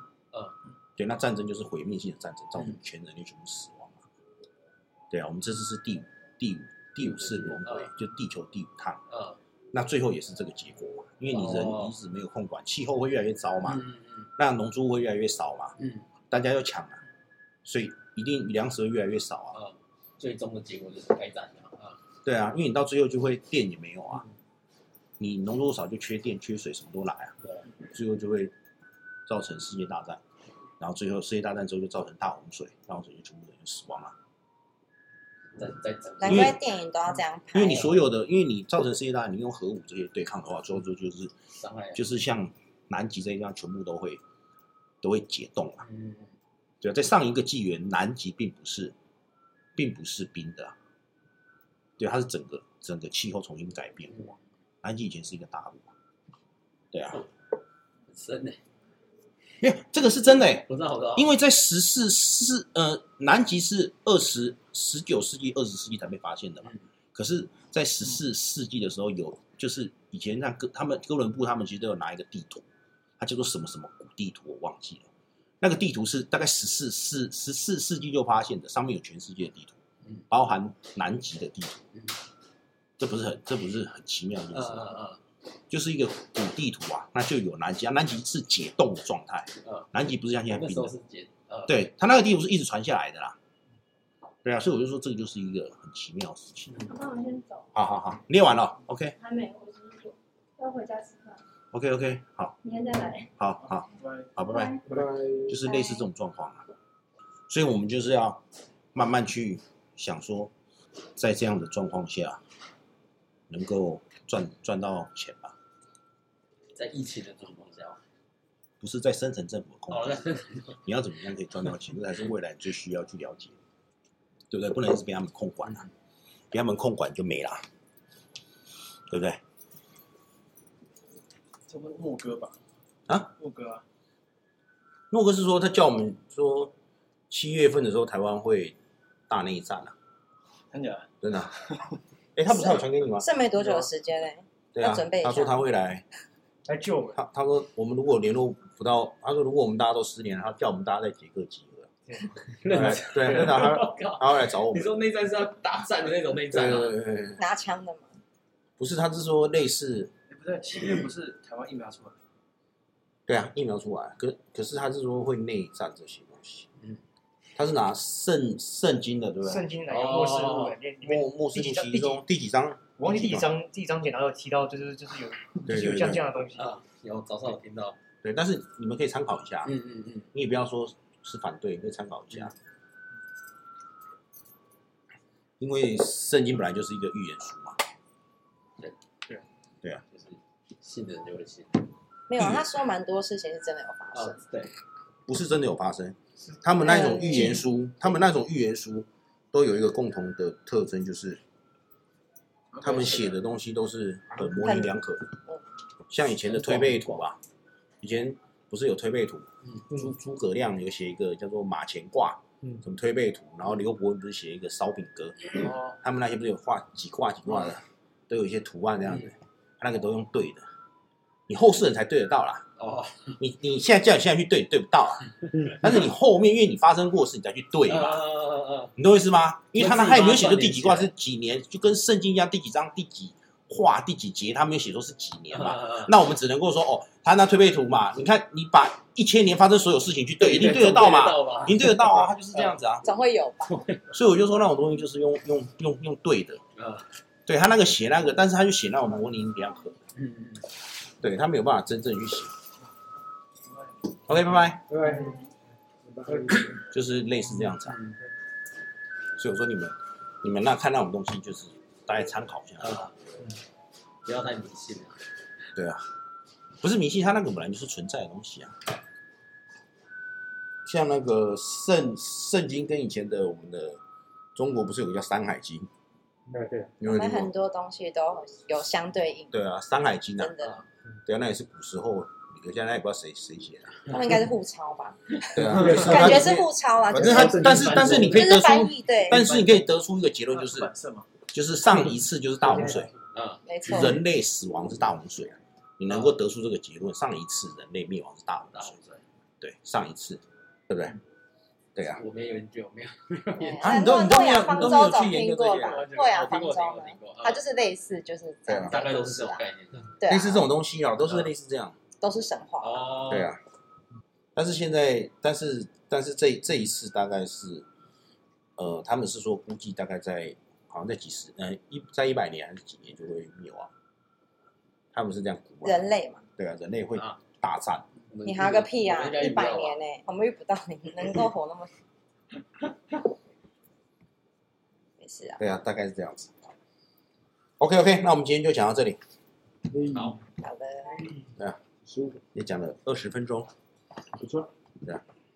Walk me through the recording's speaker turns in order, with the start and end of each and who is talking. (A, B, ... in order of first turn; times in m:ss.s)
0:01.0-0:04.0 A
0:05.1-0:09.0 A
0:07.0-0:07.9 B
0:09.1-0:09.4 B
0:09.7-0:13.8 A
0:11.3-0:12.0 B
0:13.7-0:14.3 B
0:14.4-0:15.8 A
0:15.8-0:16.0 B
0:16.3-0:17.0 A
0:17.6-0:19.6 A
0:19.5-0:22.0 B
0:22.2-0:24.2 A
0:25.2-0:28.5 A
0:27.4-0:27.7 B
0:29.3-0:30.2 A
0:30.8-0:34.2 A
0:35.6-0:36.6 B
0:36.2-0:37.9 C
0:36.3-0:36.6 A
0:37.5-0:41.3 A
0:41.5-0:42.0 B
0:42.0-0:44.2 A
0:45.0-0:45.8 A
0:45.8-0:46.3 B
0:46.8-0:49.0 A
0:49.8-0:50.8 A
0:52.0-0:54.3 A
0:54.1-0:54.4 B
0:54.8-0:55.9 A
0:56.9-0:57.2 A
0:58.1-0:58.6 B
0:59.6-1:12.6 A
1:00.6-1:01.3 B
1:13.2-1:15.1 A
1:15.6-1:19.8 A
1:20.3-1:21.8 A
1:23.0-1:24.9 A
1:24.5-1:25.2 B
1:25.7-1:30.9 A
1:29.6-1:29.9 B
1:30.5-1:31.8 B
1:31.7-1:33.4 A
1:34.4-1:37.0 A
1:36.9-1:37.6 D
1:37.7-1:39.2 A
1:39.2-1:41.4 D
1:41.7-1:42.6 A
1:42.7-1:43.2 D
1:43.4-1:44.8 A
1:43.7-1:44.3 E
1:44.9-1:45.2 E
1:44.9-1:45.6 F
1:45.5-1:46.7 A
1:47.5-1:48.4 A
1:48.9-1:50.5 A
1:51.2-1:52.4 A
1:53.5-1:55.6 A
1:56.8-1:58.0 B
1:58.8-2:03.6 A
1:59.9-2:00.8 B
2:04.5-2:05.9 A
2:06.5-2:07.6 A
2:09.1-2:09.4 A
2:11.7-2:12.6 E
2:13.4-2:13.8 E
2:15.1-2:16.7 A
2:17.3-2:18.8 A
2:19.3-2:20.0 A
2:20.7-2:21.1 E
2:21.2-2:21.6 A
2:22.4-2:23.3 A
2:22.5-2:25.6 C
2:24.7-2:26.0 A
2:26.7-2:27.2 G
2:27.2-2:31.9 A
2:32.4-2:37.0 B
2:32.7-2:34.9 A
2:36.5-2:37.4 A
2:37.4-2:38.1 C
2:38.8-2:40.1 A
2:40.3-2:42.2 E
2:43.3-2:46.7 A
2:47.6-2:49.7 A
2:49.4-2:52.2 G
2:49.9-2:50.8 B
2:51.0-2:53.5 A
2:53.0-2:56.8 G
2:55.6-2:56.3 A
2:56.5-2:58.0 B
2:58.2-2:59.8 A
2:59.6-3:00.3 B
3:00.3-3:02.6 A
3:05.6-3:07.8 A
3:10.1-3:11.9 B
3:12.3-3:14.4 C
3:12.4-3:12.6 A
3:14.1-3:14.8 B
3:15.3-3:21.4 A
3:16.8-3:18.1 C
3:22.8-3:25.3 A
3:22.9-3:23.2 E
3:24.4-3:24.9 C
3:26.1-3:27.4 A
3:28.0-3:40.7 A
3:35.6-3:35.9 B
3:41.5-3:42.7 A
3:42.8-3:43.4 B
3:43.4-3:48.2 A
3:47.9-3:49.0 B
3:49.0-4:03.1 A
3:49.8-3:51.1 B
3:55.6-3:56.1 B
4:00.4-4:02.8 B
4:03.0-4:03.9 C
4:04.1-4:06.6 A
4:06.8-4:07.1 B
4:07.5-4:10.0 A
4:10.2-4:10.7 B
4:11.2-4:12.5 A
4:14.3-4:14.8 A
4:14.9-4:15.4 F
4:16.0-4:16.8 F
4:16.9-4:18.0 A
4:17.9-4:18.2 B
4:19.4-4:23.0 A
4:22.8-4:23.1 B
4:24.2-4:25.2 B
4:25.7-4:26.1 A
4:26.8-4:28.8 A
4:30.8-4:34.0 A
4:34.6-4:35.9 A
4:36.5-4:36.9 F
4:37.0-4:37.5 A
4:37.0-4:39.5 C
4:39.5-4:40.5 A
4:40.4-4:40.8 C
4:41.3-4:44.2 A
4:44.1-4:49.4 C
4:45.5-4:50.9 A
4:45.7-4:46.5 F
4:47.2-4:48.4 F
4:47.8-4:48.6 B
4:49.3-4:49.8 B
4:50.5-4:51.3 E
4:51.5-4:53.1 A
4:53.3-4:53.6 B
4:53.6-4:54.2 C
4:53.8-4:59.0 A
4:56.1-4:56.4 B
4:58.7-4:59.2 B
4:59.6-5:01.2 A
5:02.0-5:02.2 A
5:02.0-5:07.6 B
5:03.6-5:10.7 C
5:03.8-5:06.0 A
5:08.7-5:09.0 A
5:08.8-5:10.2 B
5:10.3-5:12.0 A
5:12.2-5:13.0 C
5:12.8-5:13.5 B
5:13.3-5:13.6 A
5:14.6-5:17.9 A
5:18.8-5:23.9 A
5:25.1-5:26.0 A
5:25.8-5:26.4 C
5:26.6-5:28.0 A
5:28.3-5:30.0 B
5:28.4-5:31.9 C
5:35.2-5:35.6 C
5:35.6-5:36.5 A
5:37.8-5:39.2 A
5:39.9-5:40.4 F
5:40.1-5:40.4 B
5:40.6-5:41.4 C
5:42.1-5:42.4 F
5:42.5-5:43.7 A
5:44.4-5:44.7 F